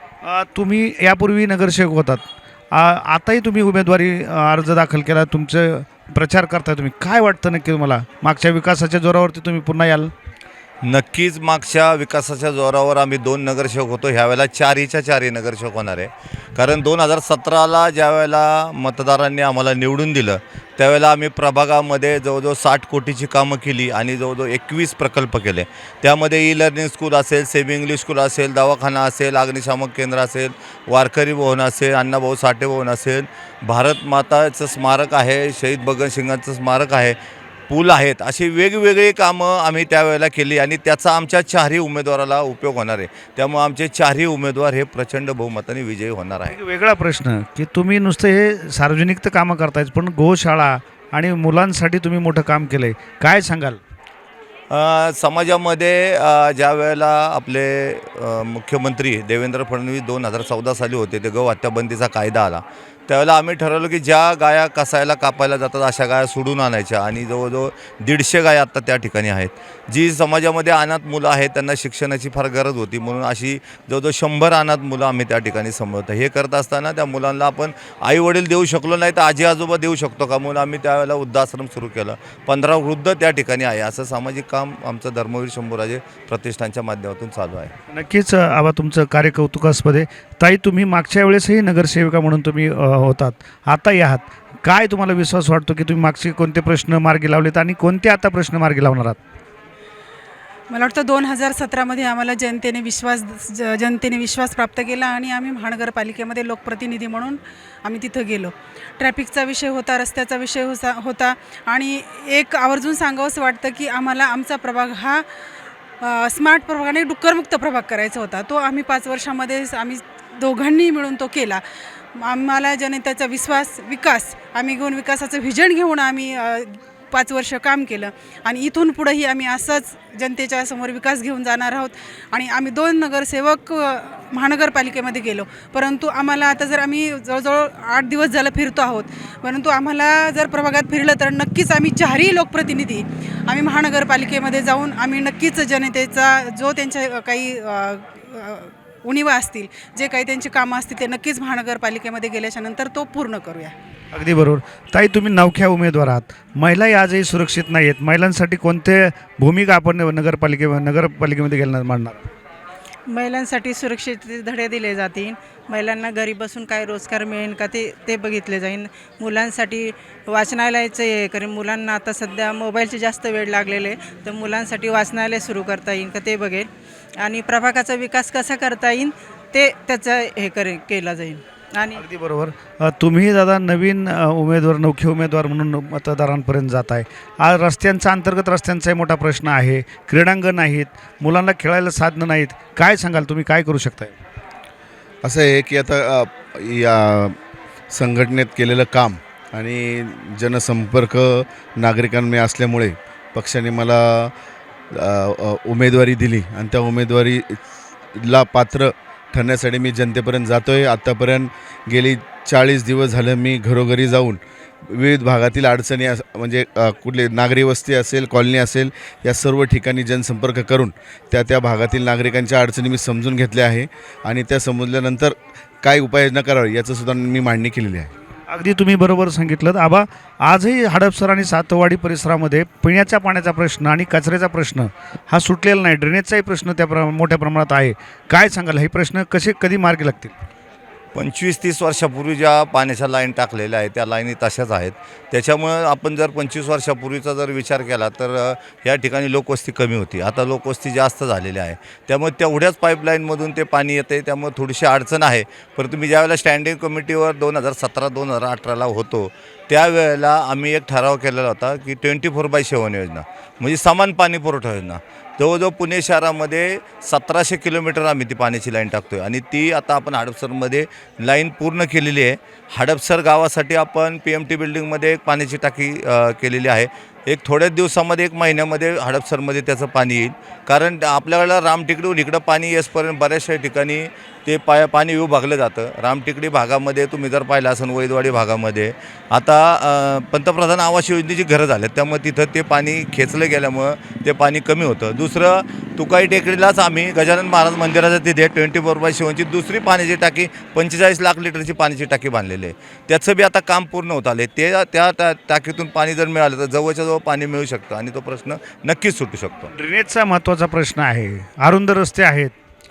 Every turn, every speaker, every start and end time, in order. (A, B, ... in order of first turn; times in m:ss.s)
0:00.2-0:10.1 A
0:10.8-0:37.2 B
0:37.7-0:46.6 B
0:46.5-0:53.8 A
0:54.7-1:27.7 B
1:27.9-1:39.2 A
1:40.7-1:55.2 C
1:56.0-2:01.6 C
2:02.1-2:33.7 C
2:34.1-2:42.2 A
2:43.1-3:02.0 D
3:02.0-3:14.1 A
3:15.2-3:17.4 E
3:17.9-3:24.3 E
3:24.9-3:27.6 E
3:28.2-3:48.1 E
3:48.5-4:00.3 A
4:01.1-5:09.7 B
5:09.8-5:12.5 A